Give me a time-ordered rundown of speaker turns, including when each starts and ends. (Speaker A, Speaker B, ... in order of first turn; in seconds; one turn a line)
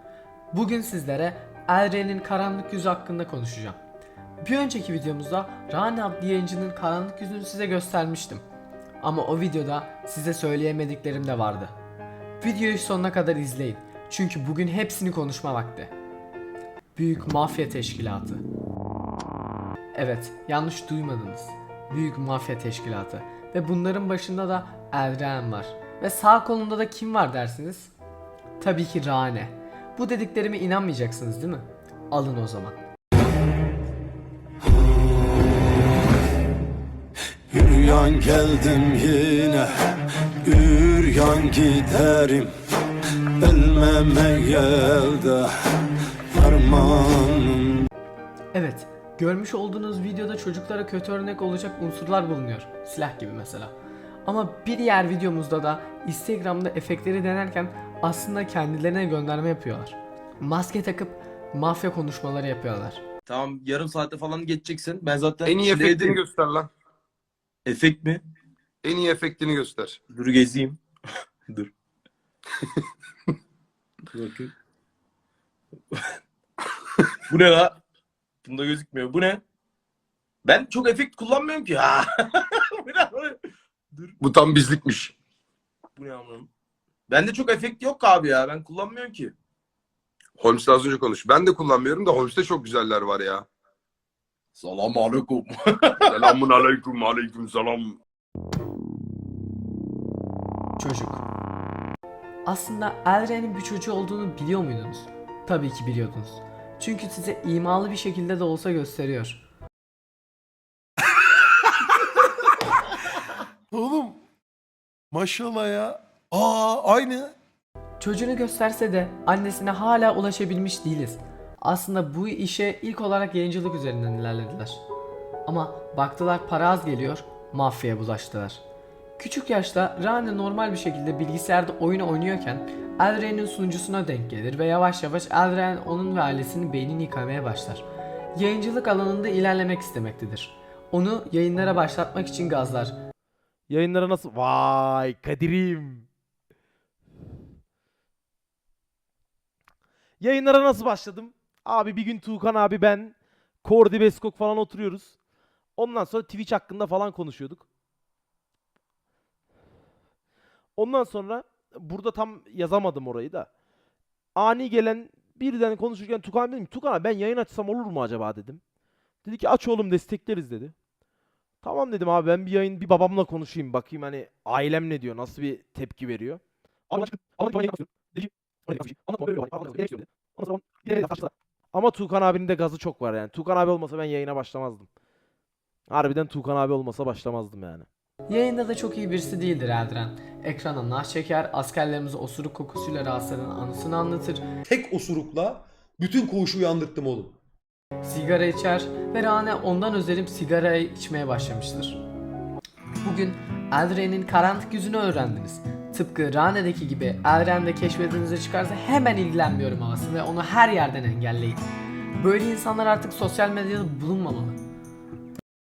Speaker A: 0.5-3.8
Speaker A: 4.4-8.4
Speaker A: 9.0-11.7
Speaker A: 12.4-15.9
Speaker A: 16.9-18.4
Speaker A: 19.9-27.9
Speaker A: 28.6-32.8
Speaker B: 34.6-35.8
Speaker B: 37.5-42.5
Speaker B: 43.4-45.8
Speaker B: 46.3-47.9
Speaker A: 48.5-53.7
Speaker A: 54.3-63.0
Speaker C: 63.3-66.2
Speaker D: 65.5-66.7
Speaker E: 66.3-66.7
Speaker C: 67.7-68.2
Speaker E: 68.8-69.8
Speaker D: 68.8-70.0
Speaker C: 70.1-70.8
Speaker C: 74.1-74.5
Speaker C: 77.3-77.8
Speaker C: 78.4-79.4
Speaker C: 80.5-83.4
Speaker C: 83.9-84.2
Speaker D: 84.2-85.1
Speaker E: 84.3-85.1
Speaker C: 86.0-86.5
Speaker C: 87.1-89.3
Speaker E: 90.4-93.4
Speaker D: 90.5-93.4
Speaker C: 94.6-96.4
Speaker E: 96.2-97.8
Speaker D: 96.3-97.9
Speaker A: 100.8-101.2
Speaker A: 102.5-109.4
Speaker F: 113.7-114.2
Speaker F: 115.1-117.3
Speaker A: 118.0-124.8
Speaker A: 125.5-128.6
Speaker A: 129.2-143.0
Speaker G: 143.7-146.1
Speaker G: 150.2-155.2
Speaker G: 155.8-157.7
Speaker G: 160.8-163.5
Speaker G: 164.4-168.6
Speaker G: 169.2-170.7
Speaker G: 171.6-184.9
Speaker G: 185.9-187.9
Speaker A: 188.3-194.4
Speaker E: 194.7-197.4
Speaker A: 198.0-202.0
Speaker A: 203.0-211.6
Speaker A: 212.2-214.6